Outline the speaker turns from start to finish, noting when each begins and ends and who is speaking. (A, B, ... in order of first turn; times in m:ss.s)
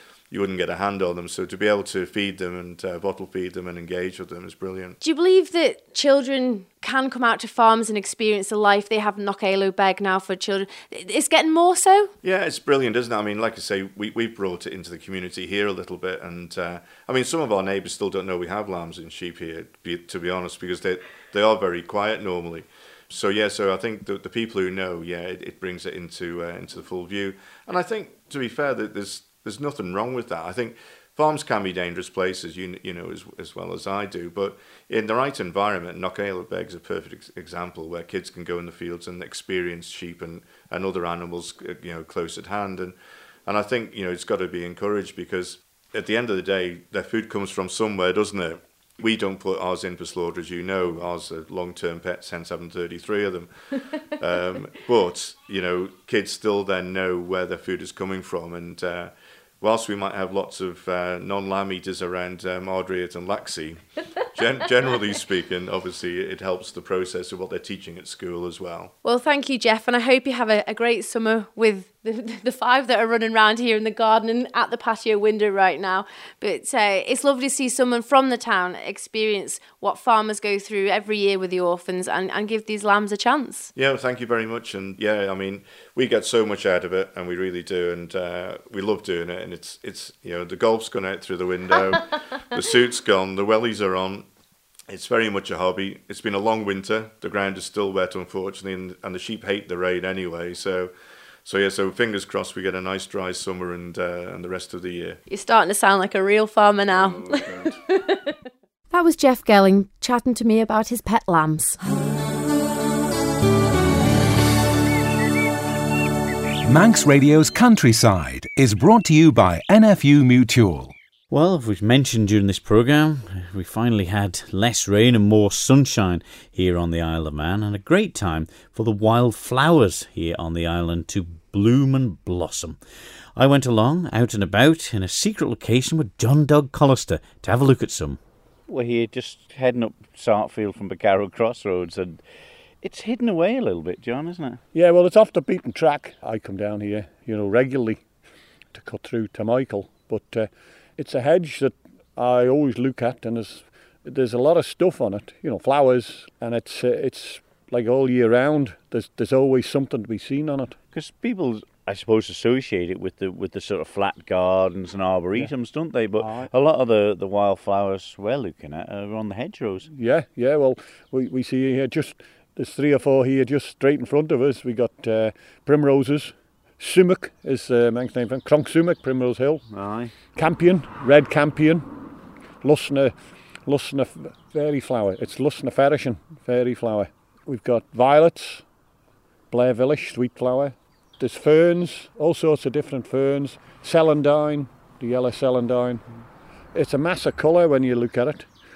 0:00.3-0:05.0 A
0:05.0-0:12.1 B
0:12.2-0:42.9 A
0:43.5-0:53.5 A
0:54.1-1:08.9 A
1:09.0-1:23.7 B
1:23.7-1:34.3 A
1:34.9-1:40.9 A
1:41.4-1:45.2 A
1:45.3-1:48.3 B
1:48.9-1:51.8 B
1:56.6-2:00.9 C
2:01.3-2:12.8 D
2:13.4-2:22.2 D
2:22.8-2:24.6 D
2:24.7-2:28.0 E
2:28.7-2:40.8 E
2:40.9-2:49.9 D
2:46.2-2:46.5 E
2:49.9-2:59.6 E
2:59.7-3:00.1 D
3:00.3-3:01.8 E
3:02.6-3:03.1 E
3:03.6-3:08.6 E
3:09.5-3:16.0 E
3:16.7-3:18.5 E